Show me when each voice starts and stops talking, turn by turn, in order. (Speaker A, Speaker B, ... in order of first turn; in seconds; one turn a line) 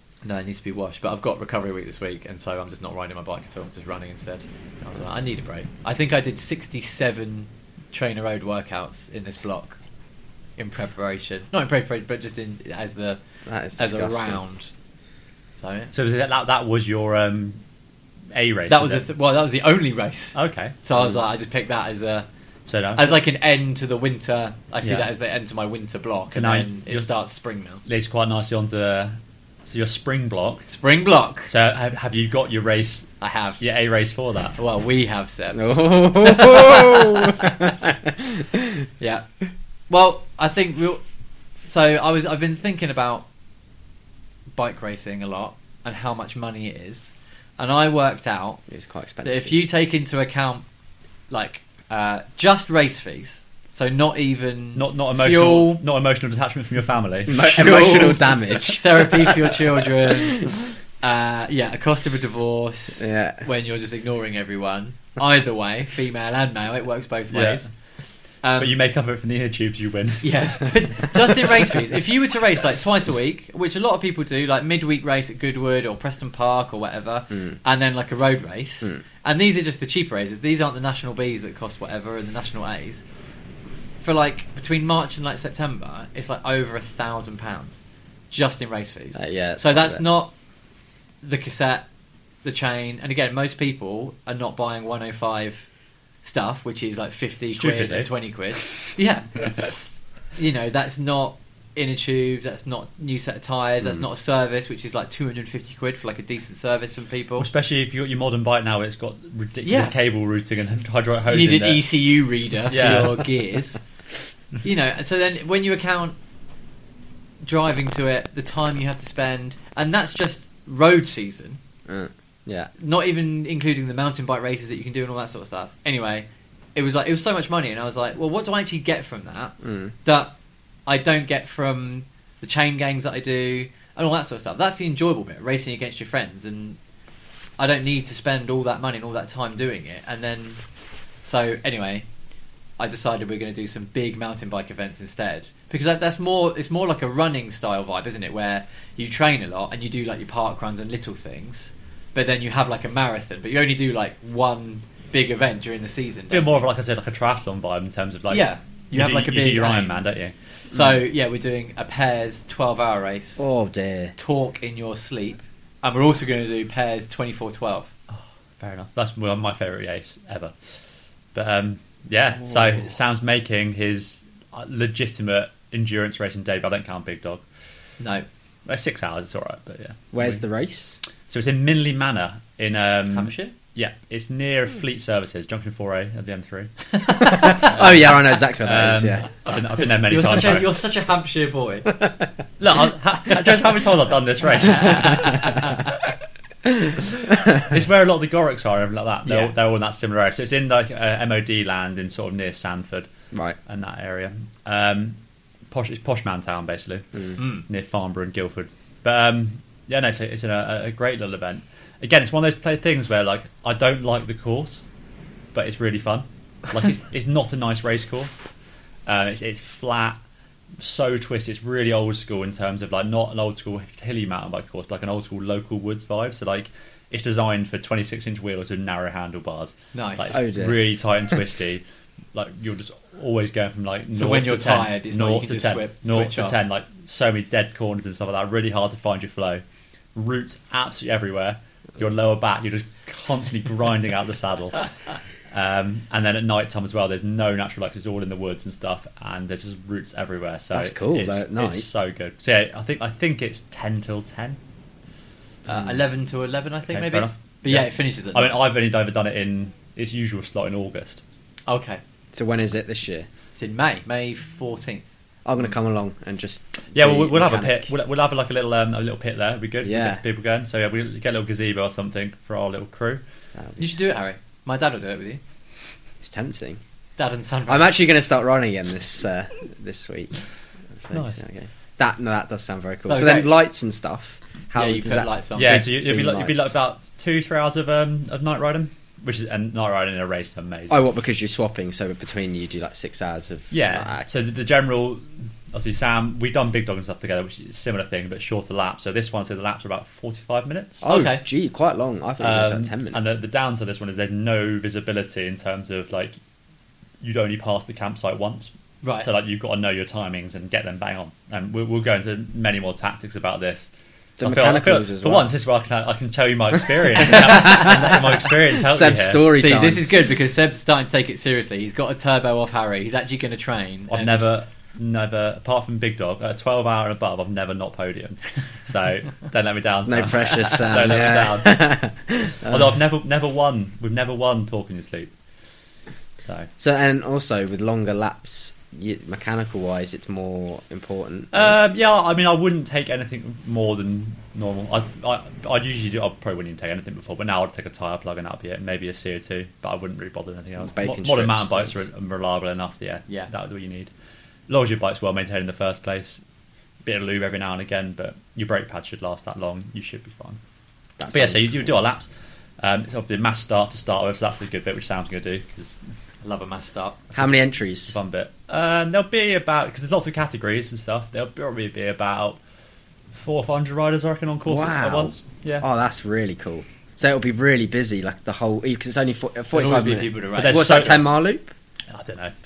Speaker A: 0.2-9.8
Speaker A: 10.6-13.2
Speaker B: 13.5-14.4
Speaker A: 13.8-14.7
Speaker A: 15.6-15.9
Speaker C: 15.9-17.6
Speaker C: 18.3-19.1
Speaker A: 18.7-22.3
Speaker C: 20.4-20.8
Speaker C: 22.7-23.2
Speaker A: 22.9-27.8
Speaker C: 24.8-25.1
Speaker C: 26.3-27.1
Speaker C: 27.9-30.7
Speaker A: 30.7-31.5
Speaker C: 31.5-34.6
Speaker A: 33.2-33.6
Speaker A: 34.6-37.5
Speaker B: 35.5-38.8
Speaker A: 39.0-39.3
Speaker A: 39.9-41.0
Speaker A: 41.6-43.3
Speaker A: 44.6-48.6
Speaker B: 48.7-49.6
Speaker A: 49.2-50.6
Speaker A: 51.3-55.8
Speaker C: 54.8-58.3
Speaker B: 57.3-59.4
Speaker A: 57.5-67.7
Speaker B: 63.0-63.5
Speaker C: 67.3-67.7
Speaker A: 68.4-68.7
Speaker C: 68.6-70.7
Speaker A: 70.2-83.0
Speaker A: 84.0-90.3
Speaker B: 89.2-90.0
Speaker A: 91.2-91.8
Speaker A: 92.4-95.7
Speaker A: 96.2-99.5
Speaker C: 97.6-98.1
Speaker A: 100.4-107.5
Speaker C: 107.4-111.9
Speaker A: 109.7-109.9
Speaker A: 111.3-113.8
Speaker C: 112.7-113.3
Speaker A: 114.6-116.2
Speaker A: 117.4-121.6
Speaker B: 121.9-122.7
Speaker A: 122.8-130.3
Speaker B: 129.6-129.9
Speaker A: 130.9-136.8
Speaker A: 137.6-140.6
Speaker A: 141.2-142.1
Speaker A: 142.8-156.6
Speaker C: 156.3-160.3
Speaker A: 158.3-160.0
Speaker A: 160.7-163.4
Speaker B: 163.4-164.2
Speaker A: 164.2-167.9
Speaker C: 168.1-170.5
Speaker C: 171.3-177.4
Speaker A: 178.0-178.3
Speaker C: 178.7-180.4
Speaker B: 180.1-181.0
Speaker C: 181.3-190.7
Speaker A: 183.1-183.5
Speaker B: 187.2-189.6
Speaker A: 190.1-191.9
Speaker C: 192.6-196.0
Speaker A: 194.6-195.9
Speaker C: 197.2-203.1
Speaker B: 197.4-197.7
Speaker A: 199.3-199.5
Speaker B: 203.3-203.6
Speaker C: 203.7-205.2
Speaker C: 205.7-214.8
Speaker A: 207.4-207.7
Speaker C: 215.5-218.3
Speaker C: 219.1-220.2
Speaker C: 220.8-231.8
Speaker A: 229.9-230.4
Speaker B: 230.3-230.8
Speaker C: 232.3-239.6
Speaker A: 234.1-236.6
Speaker C: 240.2-244.9
Speaker C: 245.5-254.6
Speaker B: 250.7-251.9
Speaker A: 255.7-258.6
Speaker C: 256.9-261.2
Speaker A: 261.7-262.0
Speaker B: 262.3-263.3
Speaker A: 263.5-265.1
Speaker B: 265.4-267.9
Speaker C: 266.9-273.2
Speaker B: 269.8-270.2
Speaker B: 273.6-273.9
Speaker A: 273.8-275.4
Speaker B: 276.2-276.8
Speaker A: 277.2-278.1
Speaker B: 277.7-280.3
Speaker B: 280.9-286.7
Speaker C: 281.1-281.4
Speaker A: 283.1-283.5
Speaker A: 284.8-285.8
Speaker C: 285.6-291.0
Speaker B: 290.9-294.3
Speaker C: 293.7-301.1
Speaker A: 301.0-301.4
Speaker B: 301.0-303.3
Speaker C: 302.4-306.4
Speaker C: 307.2-313.9
Speaker A: 309.0-309.3
Speaker B: 314.4-315.5
Speaker C: 314.4-319.5
Speaker B: 317.1-320.1
Speaker A: 319.6-324.5
Speaker C: 324.1-331.9
Speaker B: 330.1-332.9
Speaker C: 332.7-335.3
Speaker C: 336.4-336.7
Speaker B: 336.8-341.8
Speaker C: 341.5-354.1
Speaker B: 350.8-352.0
Speaker C: 354.7-356.4
Speaker C: 357.1-360.6
Speaker B: 361.2-362.0
Speaker C: 361.3-362.3
Speaker C: 362.8-366.0
Speaker A: 366.4-367.2
Speaker B: 367.3-368.2
Speaker C: 368.1-372.6
Speaker C: 373.3-375.9
Speaker B: 374.7-381.7
Speaker A: 379.7-381.1
Speaker C: 380.6-381.3
Speaker C: 382.1-382.5